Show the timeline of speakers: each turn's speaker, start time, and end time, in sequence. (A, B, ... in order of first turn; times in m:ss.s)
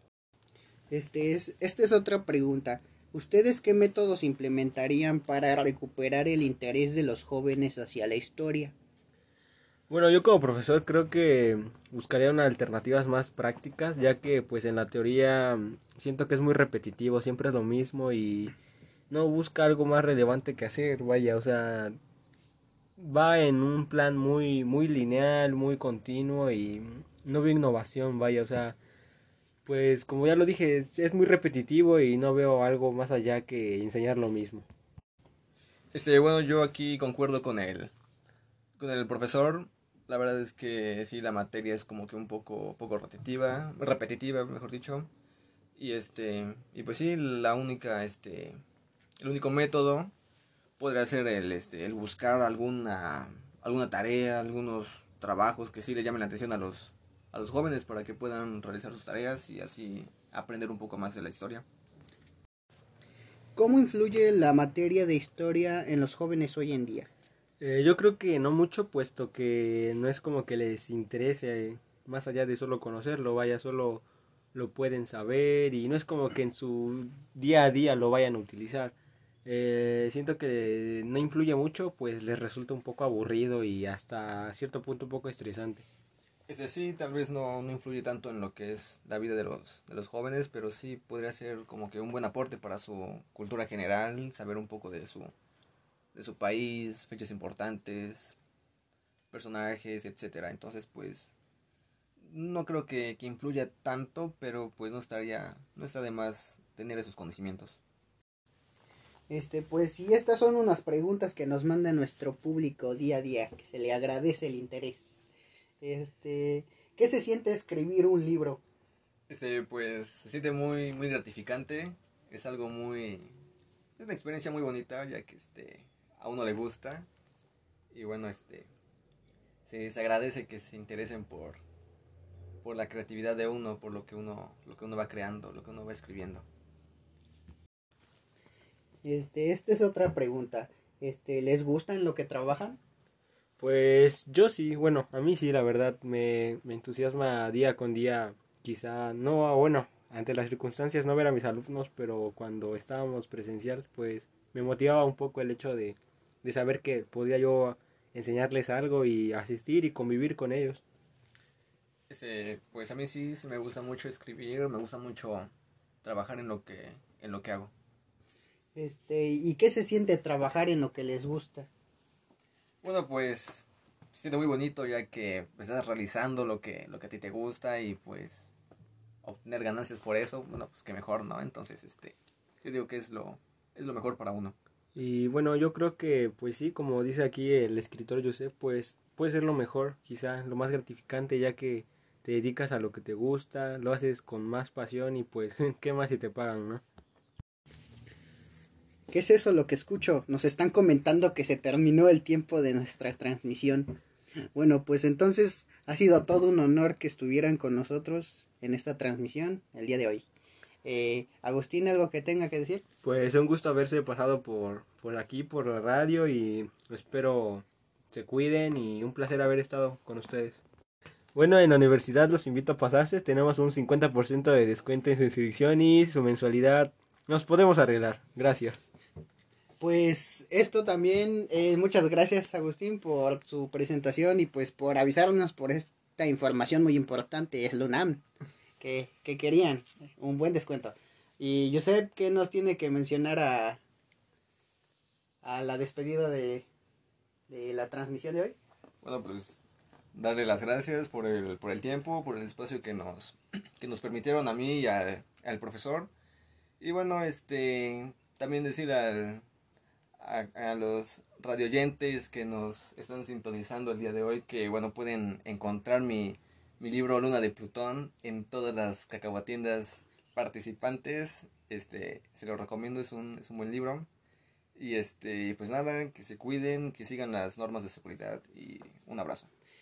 0:00.9-0:08.8 A
0:09.9-0:18.6 B
0:19.1-0:22.0 B
0:23.0-0:28.8 B
0:29.6-0:34.6 B
0:35.9-0:37.9 C
0:38.8-0:45.1 C
0:45.8-0:48.6 C
0:49.2-0:50.1 C
0:50.8-1:01.6 C
1:03.6-1:07.1 A
1:07.6-1:25.8 B
1:26.5-1:35.3 C
1:36.2-1:38.4 C
1:39.3-1:41.3 C
1:42.2-1:47.8 C
1:49.3-1:55.2 A
1:55.8-1:58.6 A
1:59.3-2:03.3 C
2:04.0-2:07.1 C
2:07.9-2:08.7 C
2:09.7-2:11.6 C
2:12.6-2:16.5 C
2:19.0-2:22.8 A
2:23.6-2:40.8 B
2:42.1-2:45.5 C
2:46.0-2:47.7 C
2:48.8-2:51.7 A
2:52.8-2:58.5 C
2:59.2-3:04.6 C
3:05.0-3:16.8 B
3:19.1-3:24.0 A
3:24.6-3:30.3 A
3:30.8-3:32.8 A
3:33.0-3:40.6 B
3:41.4-3:48.8 B
3:49.8-3:58.2 A
3:58.8-4:03.8 A
4:05.4-4:06.7 A
4:07.5-4:08.6 A
4:09.0-4:09.6 C
4:10.2-4:16.1 C
4:16.8-4:19.4 C
4:20.2-4:34.1 C
4:34.8-4:39.5 C